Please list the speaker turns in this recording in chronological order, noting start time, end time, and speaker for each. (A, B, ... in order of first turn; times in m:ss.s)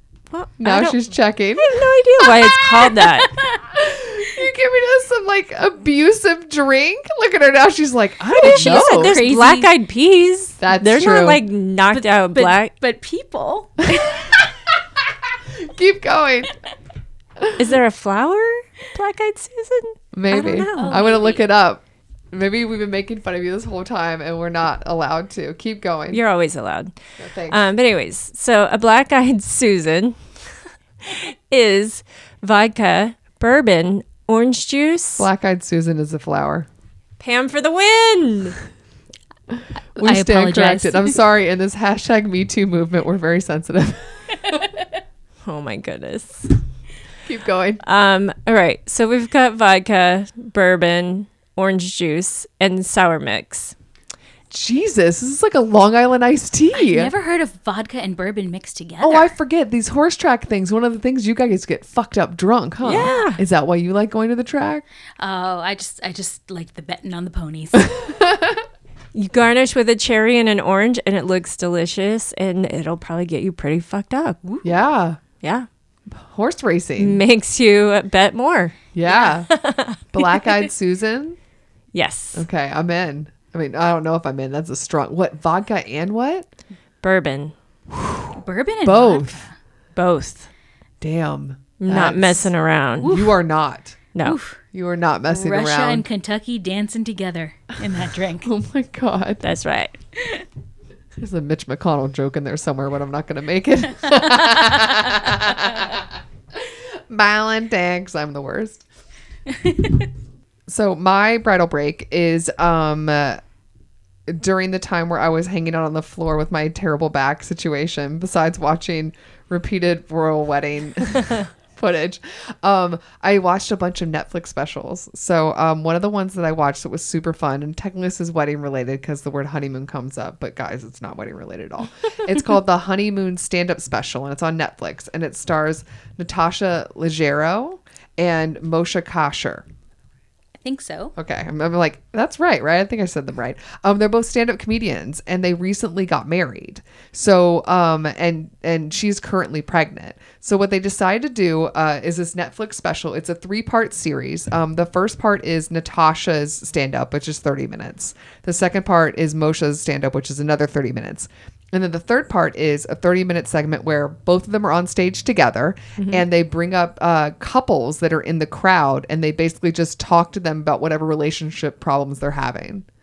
0:00.3-0:03.3 A
0:00.6-0:01.9 B
0:02.8-0:03.6 C
0:03.7-0:09.2 B
0:08.4-0:09.7 C
0:08.4-0:12.7 A
0:10.6-0:11.4 B
0:11.9-0:14.4 C
0:14.0-0:16.5 B
0:17.4-0:17.7 B
0:17.6-0:21.0 A
0:20.1-0:26.2 B
0:20.7-0:21.4 C
0:26.1-0:27.0 A
0:27.2-0:27.6 B
0:27.5-0:30.2 A
0:31.0-0:35.3 A
0:35.2-0:36.7 B
0:37.2-0:38.6 A
0:39.6-0:44.6 B
0:40.0-0:41.2 C
0:45.4-0:46.6 A
0:47.2-0:47.8 B
0:47.8-0:53.7 A
0:54.5-0:57.1 B
0:56.7-0:59.3 C
0:59.0-1:04.8 B
1:02.8-1:03.4 A
1:02.9-1:03.3 C
1:05.2-1:08.0 C
1:07.8-1:08.6 B
1:09.1-1:14.4 A
1:14.4-1:14.7 C
1:14.6-1:15.2 B
1:15.4-1:15.7 A
1:16.1-1:17.2 B
1:17.0-1:18.9 A
1:18.9-1:19.5 B
1:19.1-1:19.4 C
1:19.5-1:20.1 A
1:20.1-1:21.4 B
1:21.9-1:22.4 A
1:22.4-1:26.5 B
1:27.0-1:27.5 A
1:27.9-1:29.4 B
1:28.4-1:29.5 C
1:30.0-1:30.5 A
1:31.0-1:32.5 B
1:31.8-1:33.2 A
1:33.0-1:33.3 C
1:33.0-1:34.0 B
1:34.1-1:34.4 A
1:34.2-1:34.6 C
1:34.7-1:36.1 B
1:35.3-1:38.5 C
1:38.4-1:39.4 B
1:39.4-1:40.0 A
1:40.2-1:40.4 C
1:41.2-1:48.8 B
1:49.5-1:50.1 C
1:50.7-1:53.4 B
1:54.3-2:19.6 B
2:20.6-2:21.2 C
2:21.2-2:52.8 B
2:46.0-2:46.2 A